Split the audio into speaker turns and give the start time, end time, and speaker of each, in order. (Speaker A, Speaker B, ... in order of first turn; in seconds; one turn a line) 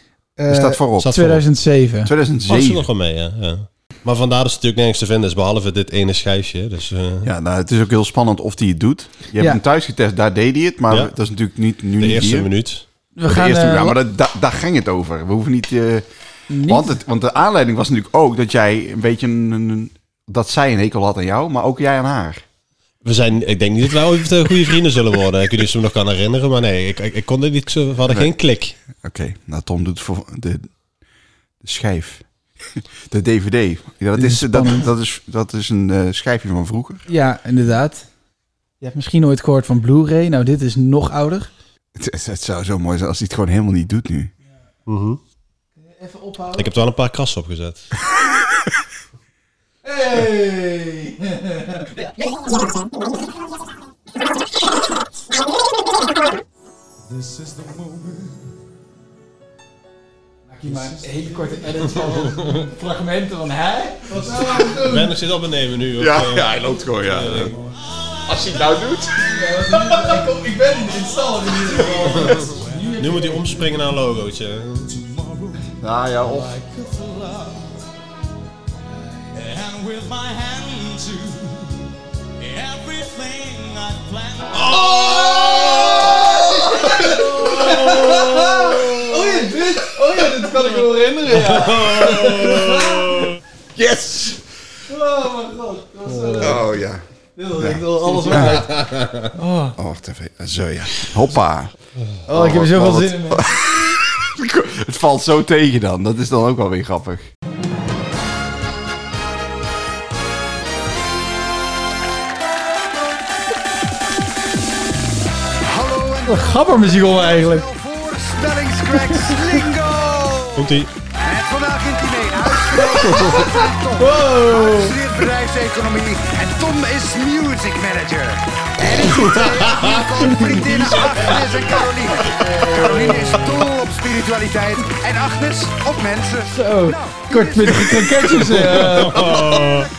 Speaker A: 0.4-2.1
Speaker B: 0.5-1.2
Speaker C: 1.0-1.4
Speaker B: 2.0-2.9
Speaker C: 2.5-7.3
Speaker B: 7.2-12.5
Speaker C: 12.0-12.8
Speaker A: 13.2-14.0
Speaker B: 13.3-16.1
Speaker A: 16.5-17.0
Speaker B: 16.7-22.4
Speaker C: 23.0-28.8
Speaker B: 28.9-30.7
Speaker B: 31.6-32.2
Speaker B: 33.1-37.0
Speaker A: 34.1-34.9
Speaker A: 37.1-38.1
Speaker A: 38.8-41.5
Speaker B: 42.0-44.3
Speaker C: 44.9-45.2
Speaker A: 45.8-46.7
Speaker C: 46.6-47.9
Speaker A: 49.8-51.9
Speaker D: 57.1-58.5
Speaker A: 60.5-65.1
Speaker D: 60.7-62.3
Speaker D: 64.2-64.7
Speaker C: 64.8-67.5
Speaker B: 66.0-67.6
Speaker B: 68.3-69.2
Speaker A: 69.2-73.5
Speaker D: 71.8-73.4
Speaker C: 72.2-74.9
Speaker D: 74.8-77.9
Speaker B: 75.8-76.5
Speaker D: 79.3-81.9
Speaker D: 82.4-85.1
Speaker C: 84.6-86.0
Speaker B: 85.8-87.9
Speaker A: 86.7-93.3
Speaker C: 91.3-93.4
Speaker B: 93.8-94.4
Speaker A: 94.9-96.7
Speaker C: 96.2-96.5
Speaker B: 96.4-97.0
Speaker A: 97.4-99.8
Speaker B: 97.6-98.7
Speaker C: 98.5-99.2
Speaker B: 99.8-101.7
Speaker A: 102.3-103.5
Speaker B: 102.3-107.3
Speaker E: 115.7-116.4
Speaker A: 116.3-117.7
Speaker D: 117.2-120.2
Speaker E: 117.9-120.2
Speaker A: 118.9-119.6
Speaker C: 120.5-120.9
Speaker E: 121.3-127.3
Speaker D: 121.6-136.2
Speaker C: 123.0-123.4
Speaker A: 123.8-125.0
Speaker E: 127.8-128.1
Speaker E: 128.9-132.2
Speaker C: 129.0-130.2
Speaker A: 130.2-130.7
Speaker C: 130.7-131.5
Speaker A: 132.4-133.3
Speaker E: 132.8-137.7
Speaker C: 133.2-133.6
Speaker A: 136.5-139.3
Speaker D: 137.0-137.9
Speaker C: 138.5-139.9